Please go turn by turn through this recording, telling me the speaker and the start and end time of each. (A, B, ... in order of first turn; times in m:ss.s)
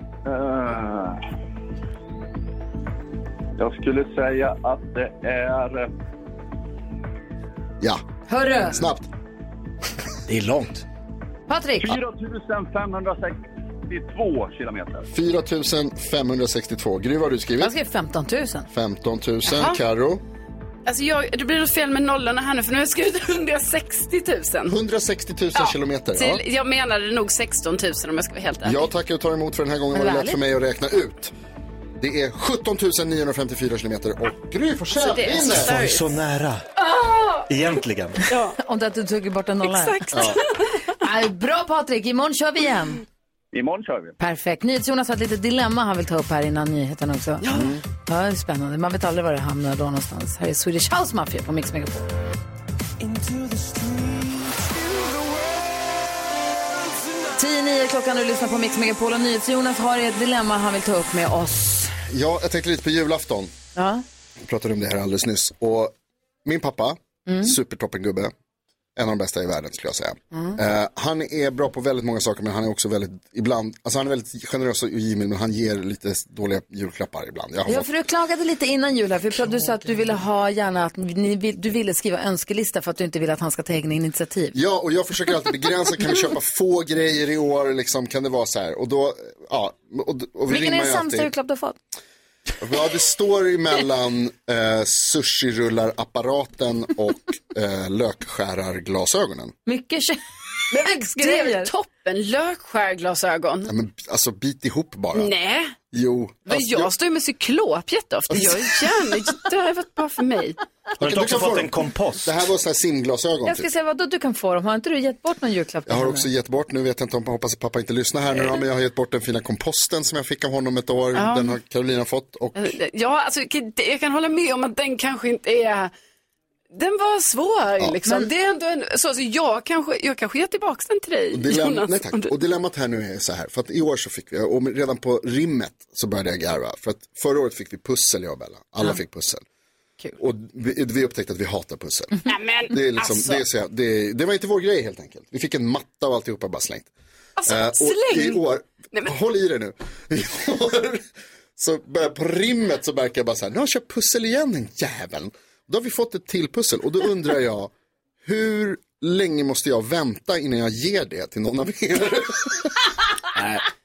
0:00.2-0:01.2 A
0:03.6-0:05.9 A
0:08.3-0:08.7 B
0:08.6-0:09.1 C
0:10.3-0:10.8 D
0:11.5-0:11.8 B
0:11.8-0:15.1 A
0:15.1-0:17.7 C
0:17.7-0:18.6 B
0:18.7-0:20.2 C
0:19.4-0:19.8 E
0:20.8-0:24.8 E
0:24.7-0:26.4 C
0:25.5-0:28.8 E
0:28.6-0:31.3 C
0:29.9-0:30.4 B
0:32.0-0:35.7 C
0:34.9-0:36.1 E
0:35.4-0:36.6 D
0:37.5-0:38.2 D
0:38.3-0:38.6 E
0:38.6-0:40.0 B
0:39.6-0:40.8 E
0:40.1-0:40.4 C
0:41.0-0:43.0 B
0:43.5-0:44.2 A
0:44.2-0:47.4 B
0:47.4-0:47.8 C
0:48.1-0:52.0 B
0:57.4-1:01.9 B
1:02.1-1:03.5 C
1:03.8-1:04.0 B
1:04.4-1:08.3 C
1:09.0-1:17.9 C
1:17.7-1:24.5 B
1:24.5-1:31.3 C
1:30.5-1:31.8 B
1:32.6-1:39.5 C
1:39.6-1:40.2 B
1:40.7-1:43.7 E
1:41.0-1:41.7 B
1:43.7-1:45.3 C
1:45.1-1:45.8 E
1:45.9-1:46.9 C
1:46.4-1:50.6 E
1:48.3-1:48.7 C
1:51.0-1:52.3 D
1:51.0-1:53.7 C
1:53.4-1:56.2 B
1:55.9-2:02.7 C
2:01.1-2:01.6 E
2:02.5-2:05.9 E
2:06.7-2:12.3 E
2:11.3-2:19.4 C
2:20.2-2:26.9 C
2:22.2-2:23.4 E
2:27.4-2:28.4 E
2:27.5-2:37.7 C
2:38.2-2:42.7 C